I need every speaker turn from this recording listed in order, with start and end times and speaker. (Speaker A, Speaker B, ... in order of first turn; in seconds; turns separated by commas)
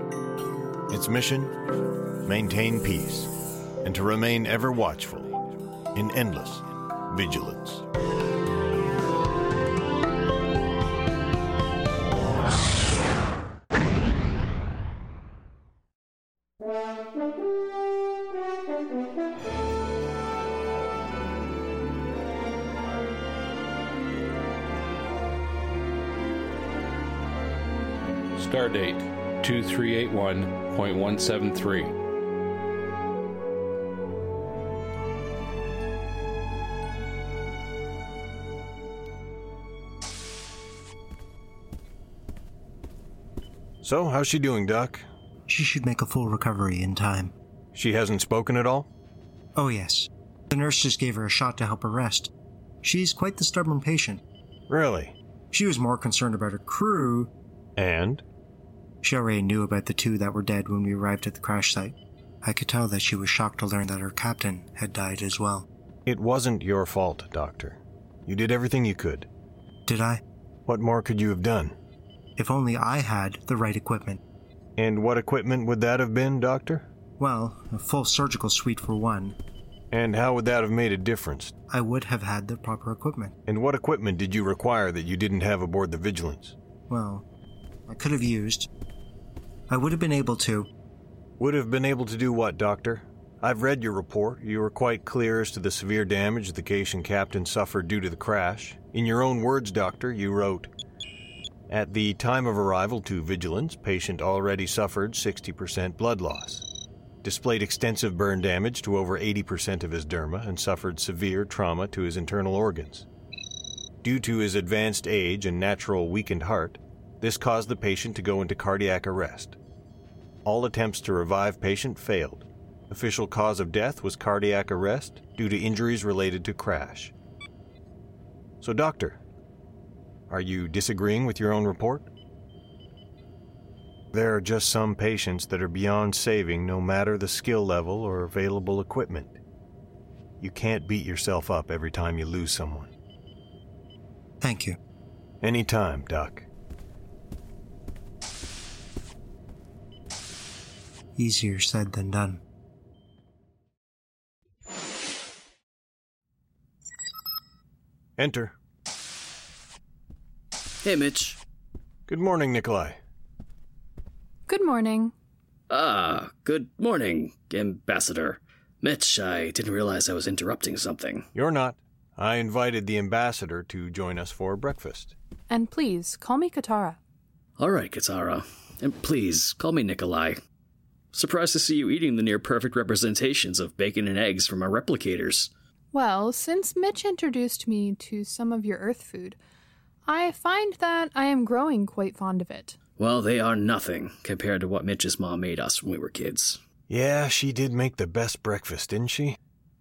Speaker A: 0.9-1.5, Speaker A: 2.2-3.3, Speaker A: 3.8-5.3, Speaker A: 5.9-7.8, Speaker B: 28.4-31.9, Speaker A: 43.8-45.0, Speaker C: 45.5-47.3, Speaker A: 47.7-48.9, Speaker C: 49.5-52.3, Speaker C: 52.8-54.2, Speaker A: 54.7-55.1, Speaker C: 55.5-57.3, Speaker A: 57.8-58.2, Speaker C: 59.0-65.7, Speaker A: 66.0-69.3, Speaker C: 69.9-70.2, Speaker A: 70.7-71.7, Speaker C: 72.4-74.2, Speaker A: 74.8-76.8, Speaker C: 77.2-79.3, Speaker A: 79.9-81.5, Speaker C: 81.7-83.3, Speaker A: 83.5-86.5, Speaker C: 86.9-87.2, Speaker C: 87.9-88.7, Speaker C: 89.7-90.7, Speaker A: 91.4-100.7, Speaker A: 101.7-106.6, Speaker A: 107.2-113.0, Speaker A: 114.0-119.6, Speaker A: 120.4-127.1, Speaker A: 128.6-129.2, Speaker A: 130.3-132.1, Speaker A: 134.1-139.4, Speaker A: 140.4-142.9, Speaker C: 144.4-144.8, Speaker A: 145.4-146.4, Speaker C: 151.2-152.4, Speaker A: 158.2-158.5, Speaker D: 160.8-161.4, Speaker A: 162.1-163.0, Speaker E: 164.5-165.1, Speaker D: 165.7-171.2, Speaker A: 171.3-175.1, Speaker E: 175.5-177.0, Speaker D: 177.6-180.4, Speaker D: 181.1-185.5, Speaker E: 185.9-189.4, Speaker E: 190.1-192.8, Speaker D: 193.0-196.6, Speaker A: 196.9-199.4